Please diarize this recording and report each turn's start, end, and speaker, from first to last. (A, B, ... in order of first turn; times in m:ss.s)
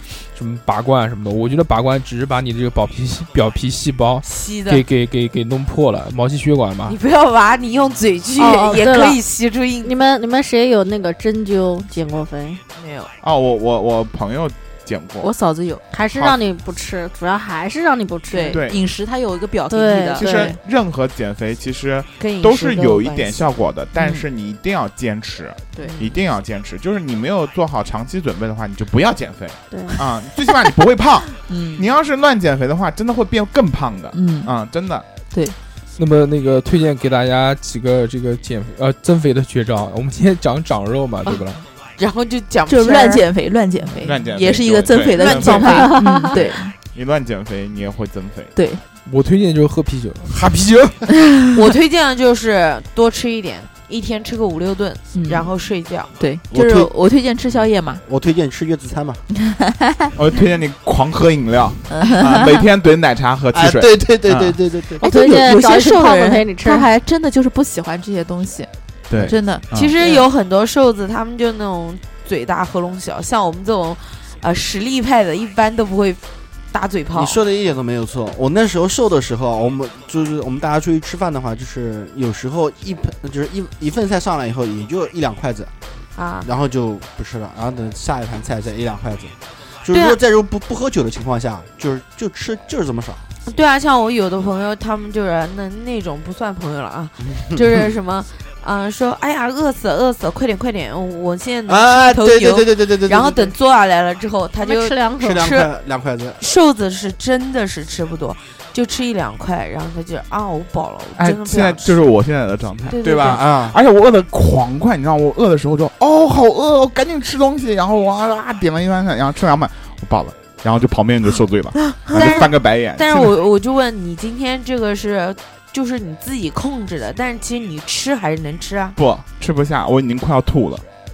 0:00.3-0:07.0 A
0:04.2-0:04.8 B
0:06.9-0:09.9 B
0:08.4-0:09.2 C
0:09.8-0:12.6 C
0:12.7-0:13.1 B
0:13.2-0:15.3 D
0:15.2-0:15.8 E
0:15.9-0:18.6 C
0:16.1-0:16.4 D
0:18.3-0:20.6 E
0:18.5-0:18.8 D
0:19.7-0:20.3 C
0:20.2-0:35.0 D
0:22.2-0:23.4 B
0:23.9-0:24.2 E
0:25.7-0:26.0 E
0:25.8-0:26.1 B
0:29.7-0:30.0 C
0:31.4-0:31.9 E
0:34.1-0:34.5 E
0:35.3-0:35.6 E
0:36.0-0:41.6 A
0:42.0-0:43.2 B
0:42.7-0:46.7 E
0:44.0-0:45.9 D
0:45.1-0:46.6 B
0:45.7-0:46.3 C
0:46.9-0:48.5 D
0:48.5-0:48.8 E
0:49.0-0:51.0 A
0:51.5-0:56.1 B
0:55.1-0:55.5 E
0:56.2-0:58.0 E
0:56.5-0:56.9 F
0:58.0-0:59.2 F
1:00.2-1:04.6 D
1:01.9-1:02.6 E
1:03.5-1:05.0 F
1:05.0-1:06.9 C
1:05.0-1:10.3 E
1:09.1-1:09.9 D
1:09.7-1:17.4 B
1:17.1-1:25.7 F
1:26.2-1:26.5 B
1:26.4-1:33.3 F
1:29.9-1:30.2 B
1:33.4-1:45.7 B
1:37.2-1:37.8 F
1:41.7-1:43.5 F
1:44.6-1:45.5 C
1:45.2-1:46.4 F
1:46.4-1:52.0 B
1:51.2-2:03.3 D
1:52.9-1:53.4 B
1:53.0-1:53.8 F
2:02.0-2:09.0 B
2:09.0-2:10.8 D